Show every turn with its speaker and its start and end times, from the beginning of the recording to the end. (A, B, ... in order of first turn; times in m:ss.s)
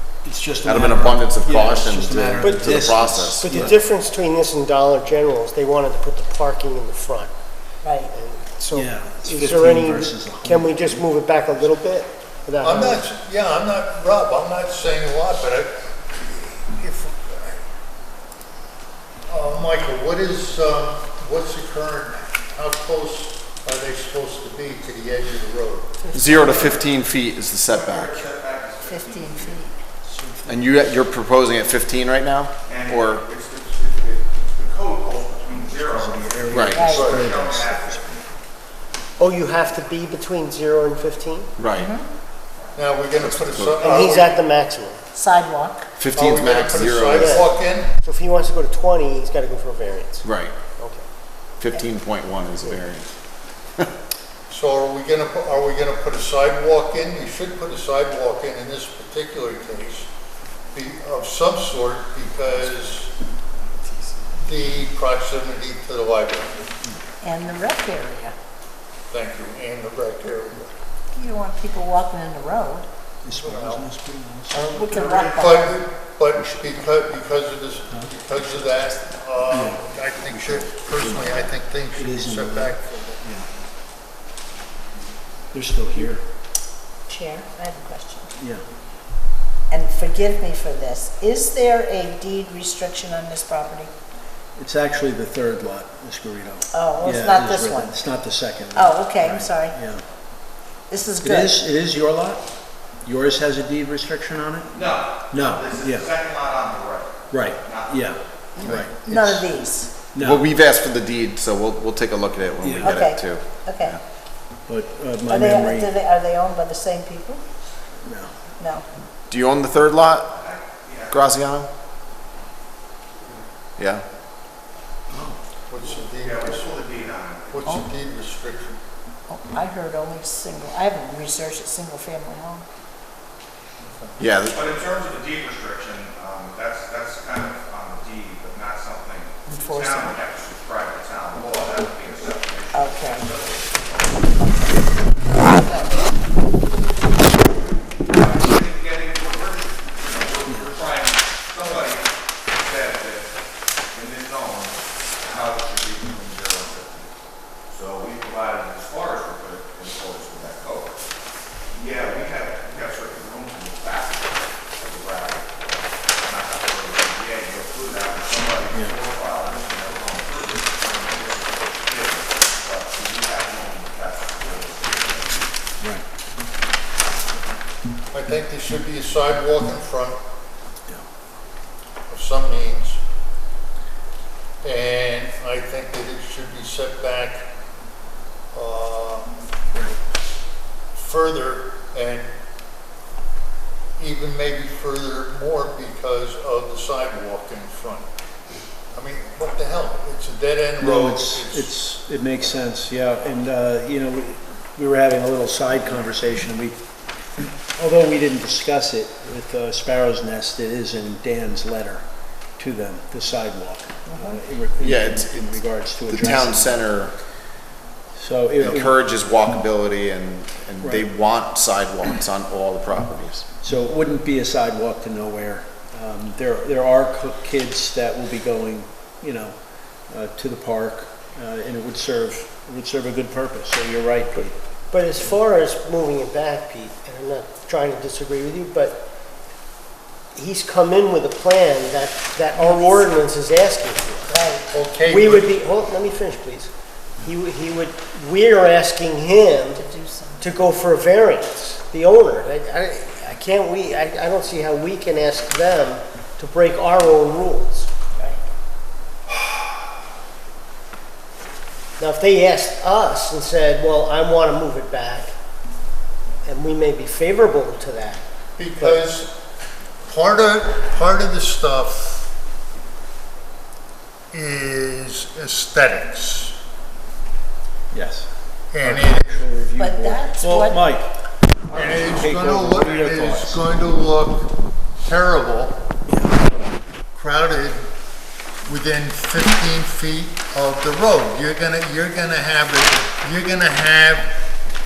0:00.2-0:03.8 A
0:00.6-0:03.7 B
0:03.4-0:07.3 C
0:07.8-0:08.1 D
0:08.1-0:13.0 C
0:08.7-0:11.0 A
0:12.6-0:17.6 E
0:19.3-0:26.0 E
0:26.0-0:26.9 D
0:26.1-0:28.2 B
0:27.7-0:29.7 F
0:28.8-0:29.8 D
0:30.0-0:30.6 A
0:30.5-0:33.2 B
0:32.7-0:38.3 F
0:35.8-0:38.1 A
0:36.5-0:36.9 B
0:36.7-0:37.0 D
0:36.9-0:37.3 E
0:39.2-0:41.5 C
0:41.6-0:41.9 B
0:41.8-0:42.0 D
0:42.8-0:44.4 E
0:43.2-0:43.8 B
0:43.8-0:45.0 C
0:45.1-0:45.9 D
0:46.0-0:47.4 B
0:46.2-0:47.9 E
0:47.0-0:50.2 C
0:50.2-0:50.6 B
0:50.8-0:51.0 C
0:51.6-0:53.1 B
0:54.5-1:00.1 E
1:00.7-1:03.1 E
1:04.4-1:06.7 E
1:07.2-1:08.4 D
1:09.1-1:10.8 E
1:11.1-1:12.9 D
1:13.2-1:14.9 A
1:13.3-1:13.9 E
1:14.5-1:15.8 D
1:14.9-1:22.9 E
1:19.5-1:23.6 A
1:25.5-1:26.2 A
1:27.1-1:28.3 D
1:28.4-1:28.6 A
1:29.7-1:33.9 D
1:34.6-1:40.0 A
1:36.7-1:37.9 D
1:38.7-1:39.8 D
1:40.9-1:41.6 D
1:41.2-1:42.4 A
1:43.0-1:46.1 A
1:44.7-1:48.2 F
1:47.3-1:49.5 A
1:48.6-1:50.0 D
1:50.0-1:50.5 A
1:50.2-1:54.0 B
1:52.6-1:53.0 A
1:52.8-1:54.0 D
1:54.7-1:55.9 A
1:55.3-1:57.4 D
1:58.0-1:58.4 A
1:58.6-1:58.9 D
1:59.3-2:00.3 B
2:00.3-2:01.4 F
2:01.1-2:01.7 B
2:03.8-2:04.0 B
2:05.1-2:05.4 A
2:05.7-2:06.7 E
2:06.0-2:07.8 F
2:07.5-2:08.8 E
2:09.3-2:12.7 D
2:13.8-2:14.2 E
2:14.2-2:14.6 B
2:14.5-2:24.3 F
2:19.4-2:20.2 D
2:22.7-2:23.3 D
2:24.4-2:24.8 D
2:25.4-2:26.1 D
2:28.0-2:33.3 F
2:30.5-2:30.7 A
2:33.9-2:37.1 F
2:37.7-2:41.0 F
2:41.7-2:55.4 F
2:58.1-3:00.2 E
3:02.1-3:03.0 E
3:04.6-3:07.5 E
3:08.5-3:09.3 E
3:10.9-3:12.3 E
3:14.0-3:18.0 E
3:18.9-3:21.7 E
3:20.8-3:26.8 A
3:27.8-3:32.0 A
3:32.6-3:36.8 A
3:34.1-3:34.4 D
3:34.8-3:37.1 B
3:38.2-3:39.0 A
3:38.6-3:43.4 B
3:40.8-3:41.1 A
3:43.6-3:49.6 A
3:50.1-3:54.6 A
3:54.9-3:59.0 C
4:00.3-4:04.3 C
4:02.6-4:03.1 D
4:04.3-4:04.7 D
4:04.7-4:05.5 E
4:05.0-4:09.8 C
4:09.7-4:10.5 D
4:10.4-4:17.9 C
4:18.1-4:18.4 D
4:22.0-4:25.3 C
4:26.4-4:29.0 C
4:28.6-4:29.3 E
4:30.0-4:32.3 E
4:34.3-4:36.6 E
4:37.9-4:41.1 A
4:38.7-4:39.3 E
4:39.8-4:40.9 D
4:41.7-4:43.6 A
4:41.7-4:44.5 E
4:45.0-4:45.8 E
4:46.1-4:46.4 A
4:47.1-4:47.8 E
4:48.7-4:54.3 E